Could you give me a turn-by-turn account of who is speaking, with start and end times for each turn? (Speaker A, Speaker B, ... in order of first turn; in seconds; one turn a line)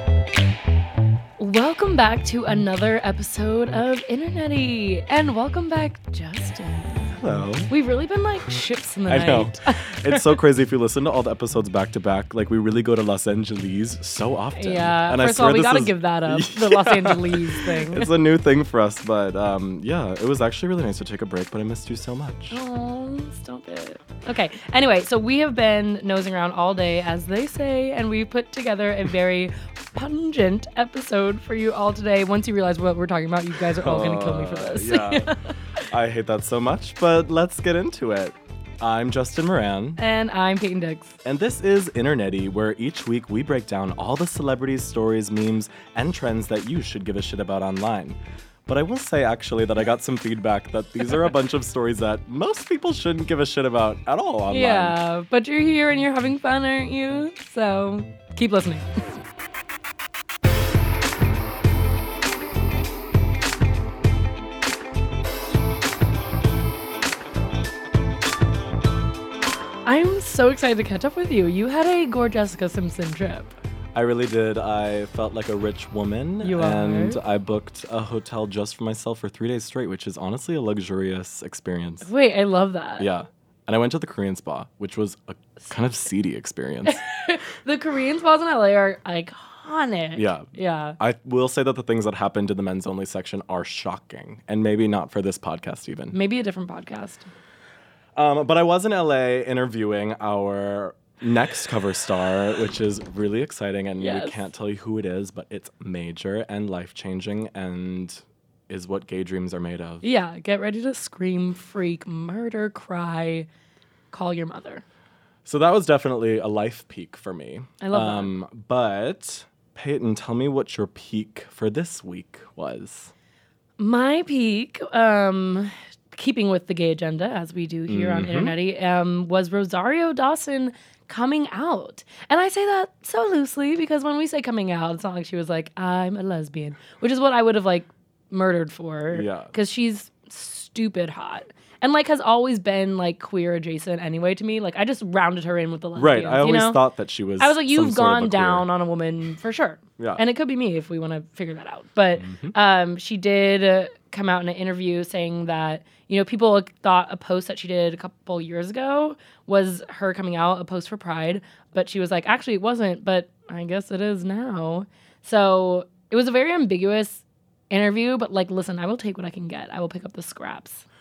Speaker A: 1.4-10.4
Speaker B: 7.2-7.7
Speaker B: 9.1-22.6
Speaker A: 14.5-18.1
Speaker A: 22.5-35.9
Speaker B: 33.7-35.3
Speaker B: 35.8-40.0
Speaker A: 40.0-41.1
Speaker B: 41.2-55.0
Speaker A: 54.5-59.2
Speaker A: 69.8-73.5
Speaker B: 73.9-82.1
Speaker A: 76.4-77.2
Speaker A: 82.0-83.1
Speaker B: 83.0-87.0
Speaker A: 86.8-91.0
Speaker B: 90.2-96.1
Speaker A: 96.1-97.3
Speaker B: 98.1-110.0
Speaker A: 104.0-104.4
Speaker A: 110.0-113.5
Speaker A: 114.1-114.8
Speaker B: 115.4-123.1
Speaker A: 117.8-118.3
Speaker A: 123.8-146.8
Speaker B: 127.9-128.5
Speaker B: 139.1-139.5
Speaker B: 145.9-148.7
Speaker A: 147.4-170.8
Speaker B: 152.2-152.5